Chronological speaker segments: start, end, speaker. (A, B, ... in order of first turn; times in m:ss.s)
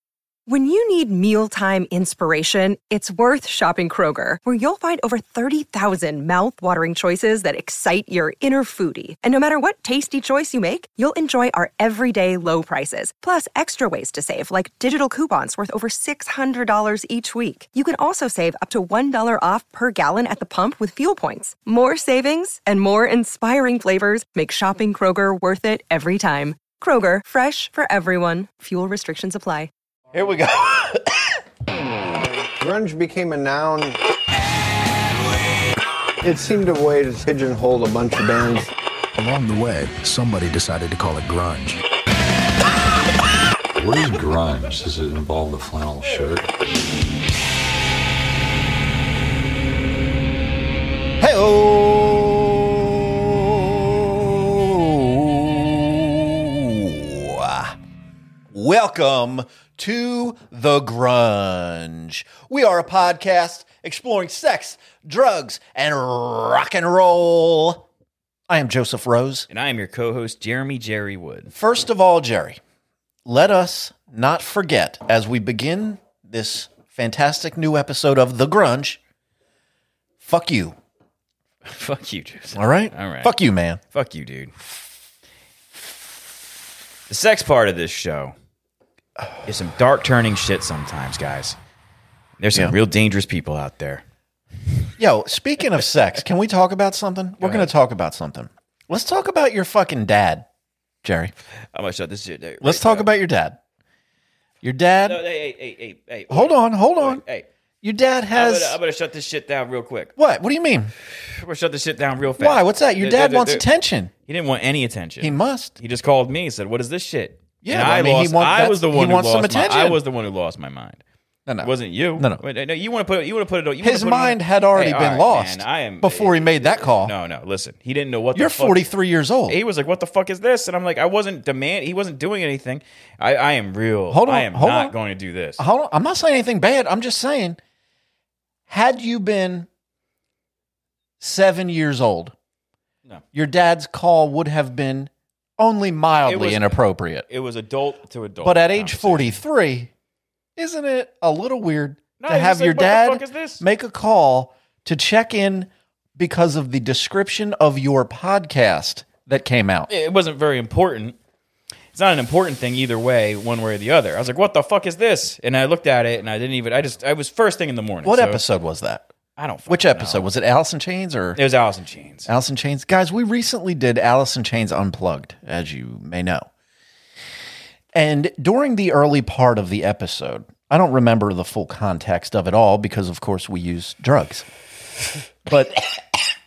0:00.5-0:29.7 A
0:30.1-0:31.1 B
0:32.6-0:34.0 C
0:36.2-0:38.7 C
0:39.2-0:41.8 D
0:43.8-0:46.5 E
0:51.2-0:57.8 B
0:58.5-1:07.8 B
1:08.5-1:09.5 B
1:09.5-1:11.5 F
1:11.5-1:12.6 B
1:13.2-1:19.0 B
1:20.2-1:20.8 B
1:21.6-1:23.3 F
1:22.5-1:23.8 B
1:23.9-1:24.5 F
1:27.1-1:28.3 F
1:29.4-1:31.6 F
1:32.4-1:34.0 F
1:35.0-1:40.4 B
1:37.4-1:37.7 F
1:41.0-1:41.3 B
1:41.7-1:43.1 F
1:42.6-1:43.6 B
1:44.6-1:45.2 B
1:45.0-1:47.5 F
1:46.3-1:47.2 B
1:47.8-1:48.8 B
1:48.3-1:50.1 F
1:50.2-1:50.9 B
1:51.3-1:53.7 F
1:52.4-1:54.1 B
1:54.3-2:01.0 F
1:55.2-1:55.8 B
1:57.6-2:00.0 B
2:01.5-2:02.4 B
2:01.6-2:08.9 F
2:03.8-2:07.1 B
2:08.3-2:09.6 B
2:09.5-2:15.6 F
2:14.1-2:14.9 B
2:15.6-2:17.6 B
2:18.7-2:19.7 B
2:21.2-2:22.3 B
2:23.3-2:27.2 B
2:26.2-2:29.4 F
2:28.4-2:29.9 B
2:30.6-2:39.9 B
2:32.2-2:33.6 F
2:39.9-2:41.2 F
2:41.9-2:48.4 F
2:48.0-2:49.1 B
2:49.4-2:50.2 F
2:49.7-2:51.4 B
2:51.4-2:52.3 F
2:52.3-2:56.5 B
2:57.9-3:04.4 B
3:05.4-3:05.8 B